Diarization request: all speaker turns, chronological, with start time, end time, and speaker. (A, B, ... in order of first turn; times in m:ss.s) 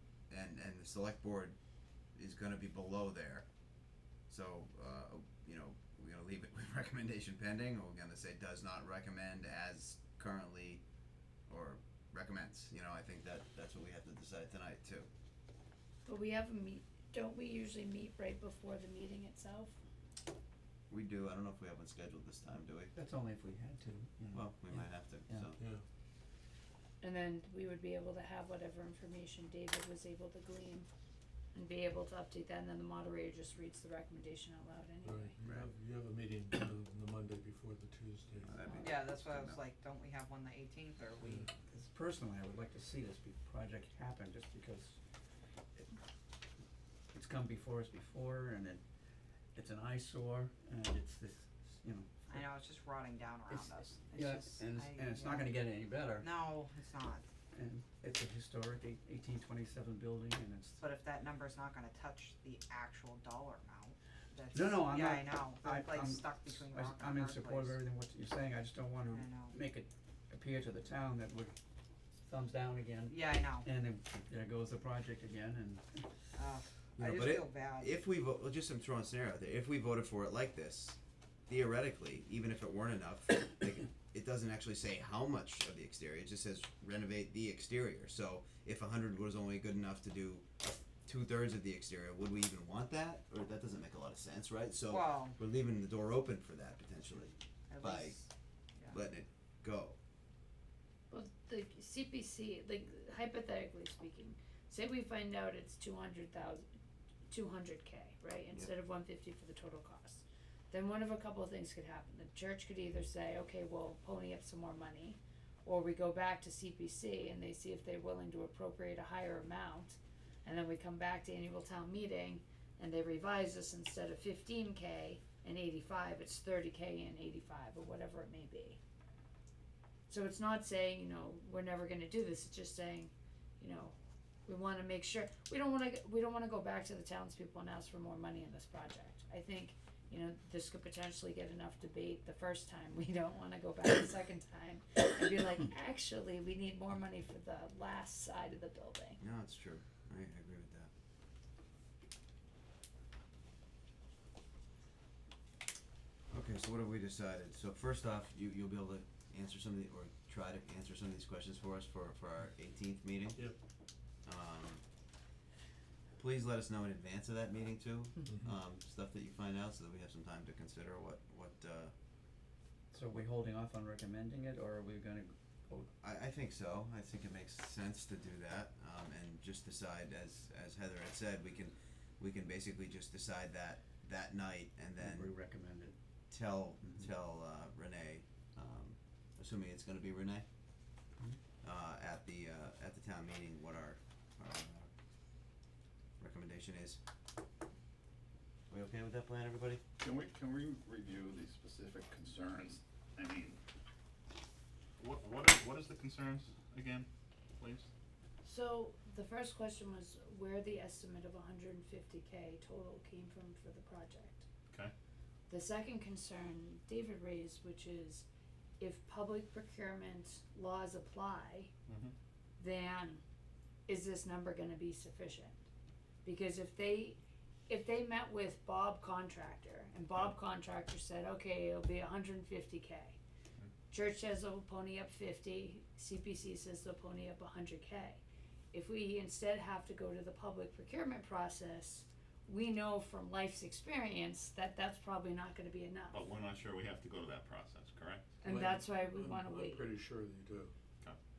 0:00.3-0:01.6 A
0:02.2-0:03.4 A
0:04.3-0:10.8 A
0:11.5-0:15.1 A
0:16.0-0:19.8 B
0:20.9-0:22.9 A
0:22.9-0:25.5 C
0:24.3-0:25.6 A
0:25.6-0:25.8 D
0:27.0-0:30.9 B
0:31.5-0:35.4 B
0:35.0-0:38.5 D
0:35.4-0:35.7 A
0:38.4-0:39.6 A
0:38.7-0:41.5 E
0:41.2-0:41.5 D
0:41.7-0:45.0 C
0:47.1-0:48.8 C
0:49.5-0:52.4 C
0:52.3-0:57.3 E
0:53.5-0:56.3 C
0:57.5-1:00.8 C
1:00.8-1:07.8 E
1:04.5-1:11.5 C
1:09.1-1:09.6 E
1:12.2-1:16.0 C
1:13.1-1:13.7 E
1:16.3-1:18.0 E
1:17.0-1:38.2 A
1:34.9-1:35.4 E
1:37.7-1:38.9 E
1:38.9-1:40.0 A
1:41.1-1:46.6 B
1:47.3-2:08.8 B
2:10.1-2:14.0 B
2:14.5-2:29.2 B
2:29.2-2:30.9 A
2:36.3-2:43.4 A
2:44.2-2:44.8 A
2:46.2-2:51.9 A
2:52.9-2:55.9 C
2:56.0-3:05.3 A
3:05.0-3:05.9 C
3:06.3-3:10.4 A
3:11.6-3:14.9 A
3:16.2-3:17.0 A
3:18.7-3:19.8 A
3:20.0-3:23.6 F
3:25.0-3:27.9 F
3:28.4-3:34.4 B
3:35.5-3:38.3 B
3:38.8-3:41.7 B
3:41.9-3:42.1 F
3:42.6-3:43.2 B
3:43.9-3:45.6 B
3:46.2-3:53.2 B
3:53.9-3:58.2 B
3:58.7-4:06.2 B
4:06.1-4:08.4 F
4:08.4-4:09.9 B
4:08.4-4:10.7 D